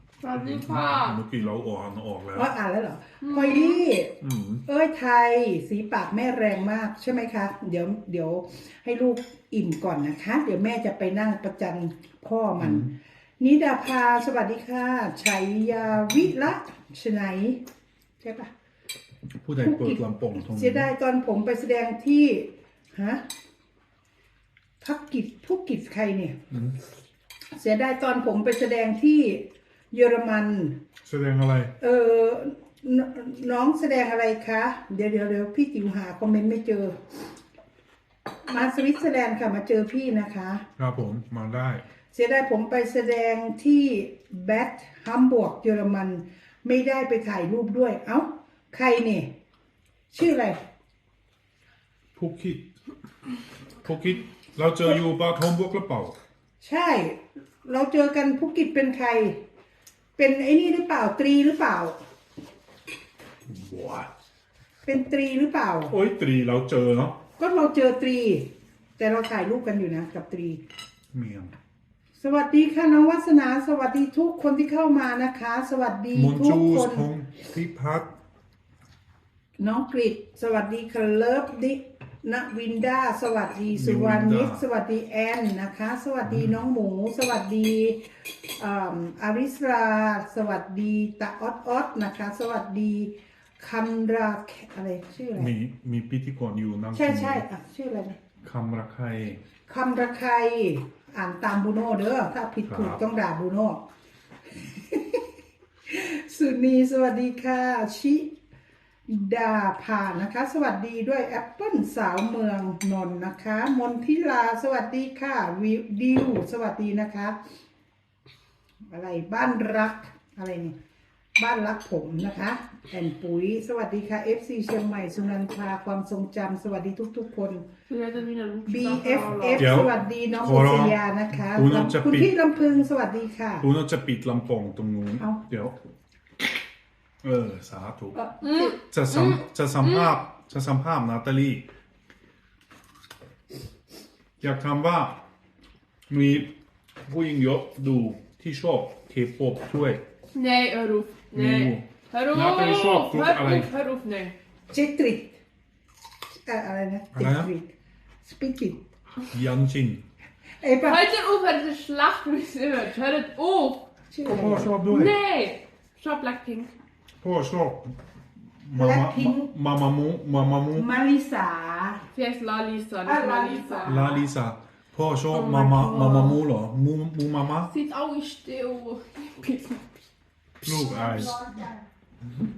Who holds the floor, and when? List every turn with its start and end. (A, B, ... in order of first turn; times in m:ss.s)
0:00.2-0:01.2 A
0:00.3-0:02.5 B
0:02.3-0:04.1 C
0:03.2-0:03.8 A
0:04.2-0:04.6 B
0:04.6-0:17.6 C
0:12.6-0:12.9 B
0:18.2-0:18.5 C
0:19.4-0:20.9 B
0:19.6-0:23.2 C
0:24.8-0:26.4 C
0:26.5-0:26.8 B
0:27.5-0:30.8 C
0:31.0-0:31.7 B
0:31.8-0:37.2 C
0:38.4-0:40.6 C
0:40.8-0:41.8 B
0:42.1-0:49.3 C
0:50.1-0:50.6 C
0:52.2-0:52.7 B
0:53.8-0:56.2 B
0:56.6-0:59.4 C
1:00.2-1:02.0 C
1:03.5-1:04.1 B
1:04.8-1:05.9 C
1:05.9-1:07.2 B
1:07.4-1:10.6 C
1:11.1-1:11.5 B
1:12.2-1:17.1 C
1:16.1-1:18.1 B
1:19.6-1:35.5 C
1:23.7-1:24.6 B
1:26.3-1:26.6 B
1:35.4-1:37.4 B
1:36.9-1:38.2 C
1:38.4-1:39.4 B
1:39.7-1:43.8 C
1:42.7-1:43.0 B
1:44.5-1:45.3 C
1:45.8-1:48.3 C
1:49.1-1:57.4 C
1:58.9-2:00.8 C
2:01.4-2:07.6 C
2:07.9-2:09.9 A
2:08.6-2:13.6 C
2:09.6-2:12.3 B
2:13.6-2:15.7 B
2:17.2-2:18.2 B
2:18.2-2:18.7 C
2:18.4-2:20.2 A
2:18.8-2:21.6 B
2:24.4-2:25.2 B
2:26.1-2:26.5 B
2:27.0-2:30.0 B
2:30.3-2:34.3 A
2:31.3-2:33.7 B
2:34.7-2:35.4 C
2:36.4-2:38.8 C
2:37.1-2:37.5 B
2:39.3-2:40.0 B
2:40.6-2:41.1 C
2:40.8-2:43.9 A
2:44.1-2:44.8 C
2:44.3-2:45.2 B
2:44.8-2:46.7 A
2:47.2-2:47.9 B
2:48.6-2:50.9 B
2:48.7-2:49.5 C
2:50.7-2:52.1 C
2:52.1-2:54.0 A
2:53.0-2:54.3 C
2:53.8-2:57.7 B
2:55.3-2:56.4 A
2:57.6-2:59.8 A
3:00.6-3:01.4 B
3:00.6-3:01.8 C